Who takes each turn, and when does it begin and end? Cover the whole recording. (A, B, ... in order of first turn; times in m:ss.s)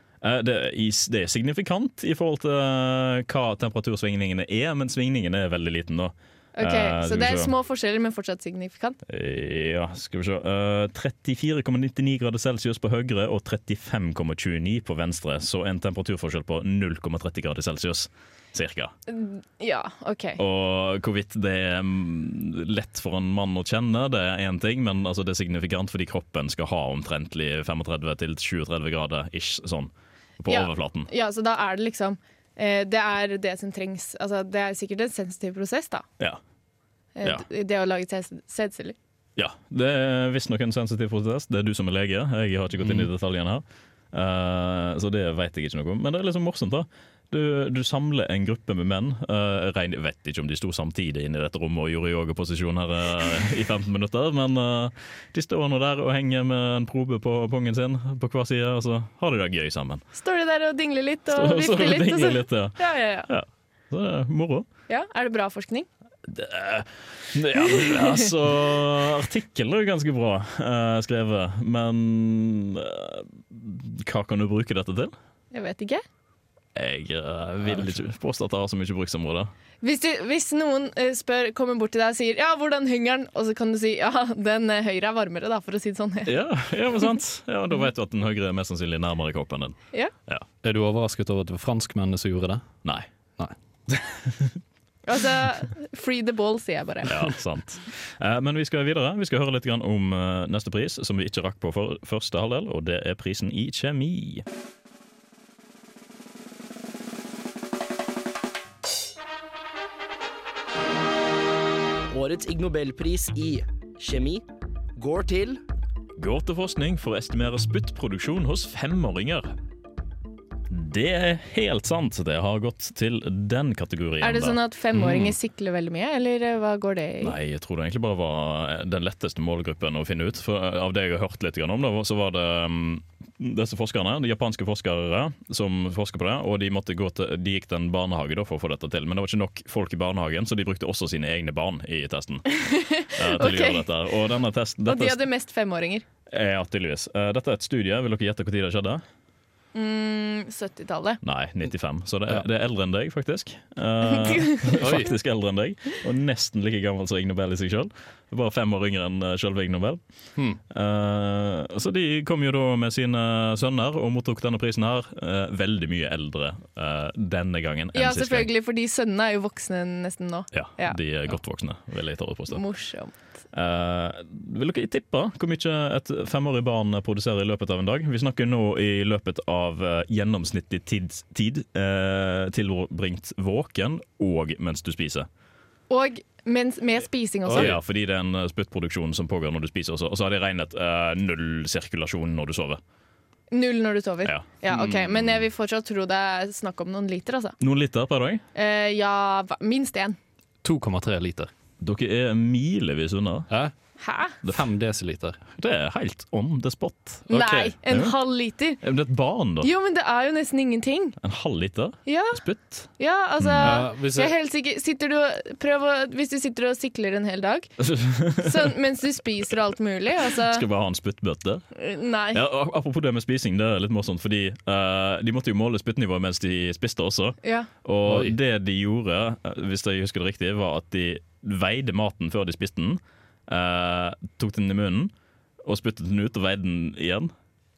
0:00.2-0:07.5 A
0:06.6-0:09.0 B
0:09.1-0:18.9 A
0:19.1-0:20.4 B
0:20.4-0:31.1 A
0:30.5-0:36.0 B
0:37.2-0:39.0 B
0:39.4-1:00.0 A
0:42.8-0:43.1 C
1:00.1-1:03.3 B
1:01.3-1:04.7 A
1:04.9-1:05.9 B
1:06.3-1:15.1 A
1:07.7-1:08.2 B
1:15.5-1:16.0 B
1:16.7-1:19.5 A
1:17.6-1:18.0 C
1:19.8-1:26.3 B
1:26.2-1:30.4 A
1:30.6-1:32.6 C
1:33.9-1:34.6 A
1:35.0-1:37.1 B
1:37.0-1:44.4 A
1:52.1-1:54.4 D
1:55.0-1:55.6 D
1:56.2-1:59.5 A
2:00.7-2:05.3 A
2:04.2-2:07.4 B
2:07.2-2:22.5 A
2:22.5-2:23.9 B
2:23.1-2:25.2 A
2:24.8-2:26.0 B
2:26.3-2:29.0 A
2:29.7-2:31.2 B
2:31.2-2:40.0 A
2:34.1-2:34.8 B
2:34.8-2:35.1 C
2:40.7-2:48.5 A
2:47.9-2:51.0 B
2:50.5-2:52.6 A
2:52.5-2:53.2 B
2:53.5-3:05.3 A
3:05.9-3:07.7 B
3:07.5-3:07.8 C
3:07.5-3:12.8 A
3:13.5-3:17.6 B
3:14.2-3:15.4 A
3:17.6-3:18.4 A
3:18.5-3:20.2 B
3:20.6-3:21.5 C
3:21.8-3:23.5 A
3:24.0-3:24.4 B
3:24.4-3:25.4 C
3:25.6-3:27.3 A
3:27.3-3:27.7 C
3:27.3-3:28.8 B
3:27.9-3:28.1 A
3:28.8-3:29.7 A
3:29.6-3:31.2 B
3:31.2-3:32.9 A
3:32.0-3:37.7 B
3:33.4-3:33.8 A
3:33.6-3:34.3 C
3:37.8-3:38.7 A
3:38.4-3:40.6 B
3:40.5-3:41.6 A
3:41.8-3:42.4 B
3:42.3-3:55.1 A
3:47.4-3:47.7 B
3:48.0-3:48.3 C
3:55.6-3:57.3 A